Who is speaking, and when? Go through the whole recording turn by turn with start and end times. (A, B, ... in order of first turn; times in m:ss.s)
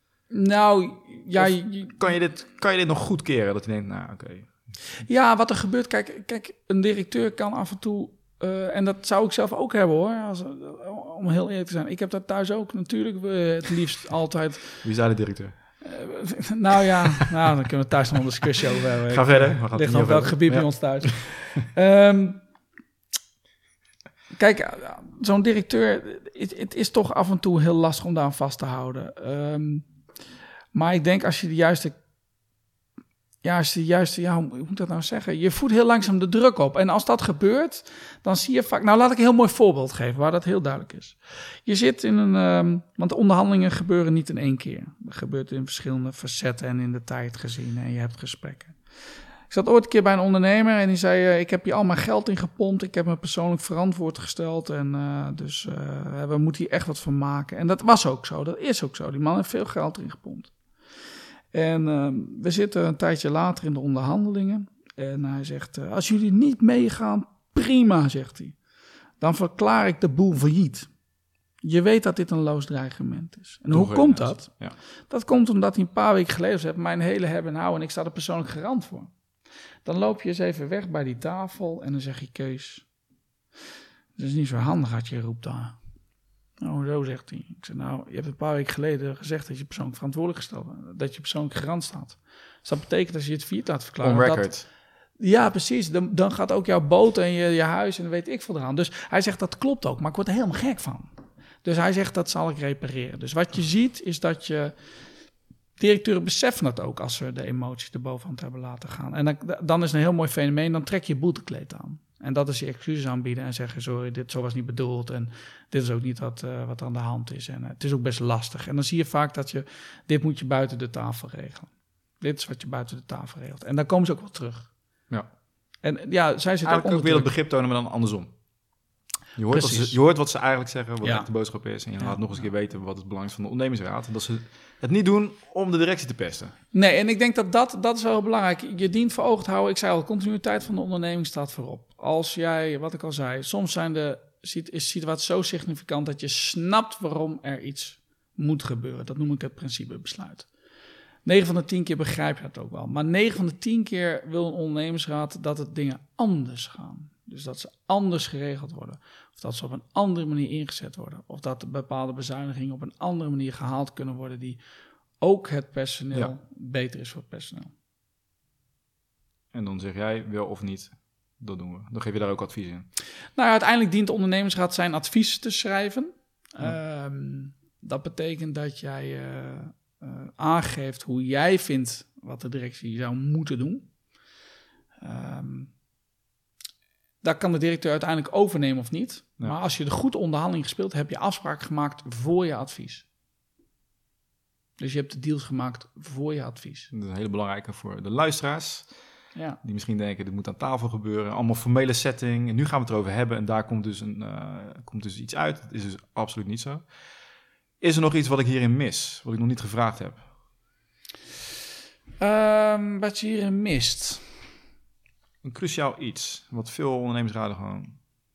0:00.3-0:02.1 A
0:01.3-0:04.7 B
0:05.0-0:14.8 A
0:14.8-0:15.6 B
0:15.8-0:22.4 A
0:19.1-0:21.4 B
0:24.3-0:29.9 A
0:30.7-0:32.0 A
0:33.4-0:48.8 A
0:49.5-1:00.5 A
1:01.5-1:08.6 A
1:09.2-1:10.9 A
1:11.6-1:19.1 A
1:13.7-1:14.8 B
1:19.8-1:22.8 A
1:24.2-1:25.8 A
1:26.6-1:34.5 A
1:34.0-1:34.6 B
1:35.2-1:41.1 A
1:41.6-1:44.7 A
1:45.8-2:04.7 A
2:05.8-2:07.3 A
2:06.6-2:08.3 B
2:09.4-2:16.5 B
2:09.5-2:10.0 A
2:11.0-2:12.5 A
2:16.7-2:30.5 A
2:31.2-2:44.6 A
2:45.2-2:47.7 A
2:49.5-2:52.9 B
2:53.3-3:03.9 A
3:05.0-3:05.7 A
3:07.2-3:13.0 A
3:14.8-3:16.9 A
3:16.9-3:18.9 B
3:19.3-3:19.6 A
3:19.6-3:26.9 B
3:27.8-3:30.3 B
3:32.2-3:34.3 A
3:35.4-3:38.0 B